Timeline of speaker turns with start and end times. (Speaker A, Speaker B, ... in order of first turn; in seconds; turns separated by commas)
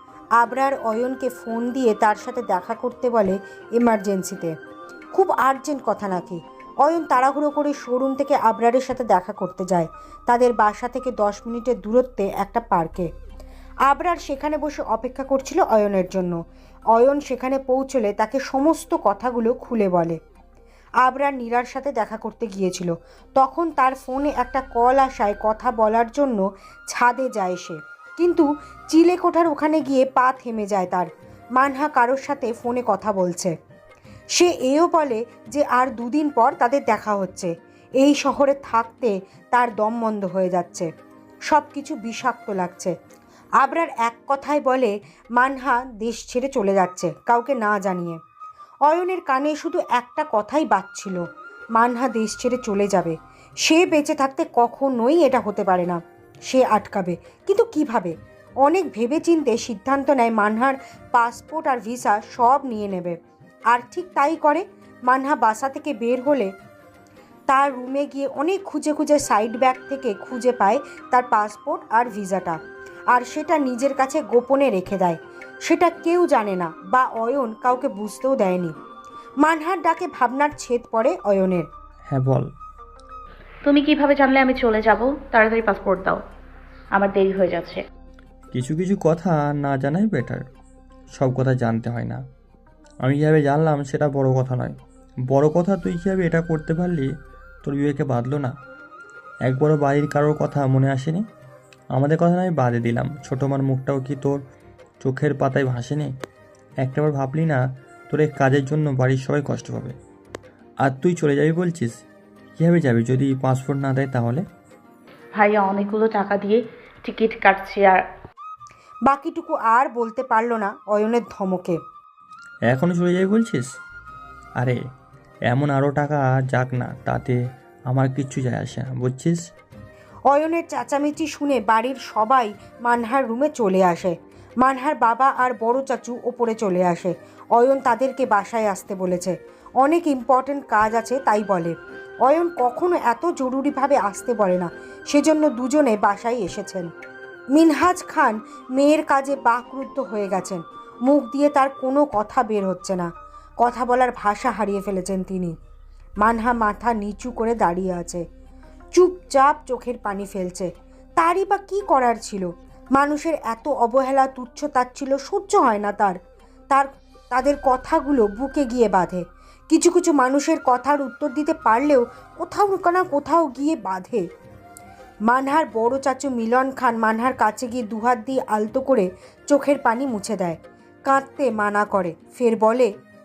Speaker A: 0.4-4.5, Speaker A: 5.1-13.1, Speaker A: 13.9-16.4, Speaker A: 16.9-20.2, Speaker A: 21.0-33.5, Speaker A: 34.4-40.9, Speaker A: 41.5-42.9, Speaker A: 43.6-48.2, Speaker A: 48.9-51.2, Speaker A: 51.8-63.2, Speaker A: 63.7-66.5, Speaker A: 67.5-72.6, Speaker A: 73.1-78.7, Speaker A: 79.4-81.7, Speaker B: 82.1-82.5, Speaker C: 83.7-86.2, Speaker C: 87.0-87.8, Speaker B: 88.5-90.4, Speaker B: 91.2-92.2, Speaker B: 93.0-94.8, Speaker B: 95.3-97.1, Speaker B: 97.6-98.5, Speaker B: 99.5-101.2, Speaker B: 101.9-104.4, Speaker B: 105.0-106.1, Speaker B: 106.8-110.0, Speaker B: 110.8-112.0, Speaker B: 112.6-114.4, Speaker C: 115.4-118.0, Speaker A: 119.1-121.8, Speaker B: 122.7-123.7, Speaker B: 125.5-127.4, Speaker B: 127.9-129.4, Speaker A: 130.3-146.9, Speaker A: 147.5-153.1, Speaker A: 153.6-155.5, Speaker A: 156.2-158.2, Speaker A: 158.9-166.2, Speaker A: 166.7-174.2, Speaker A: 175.3-182.9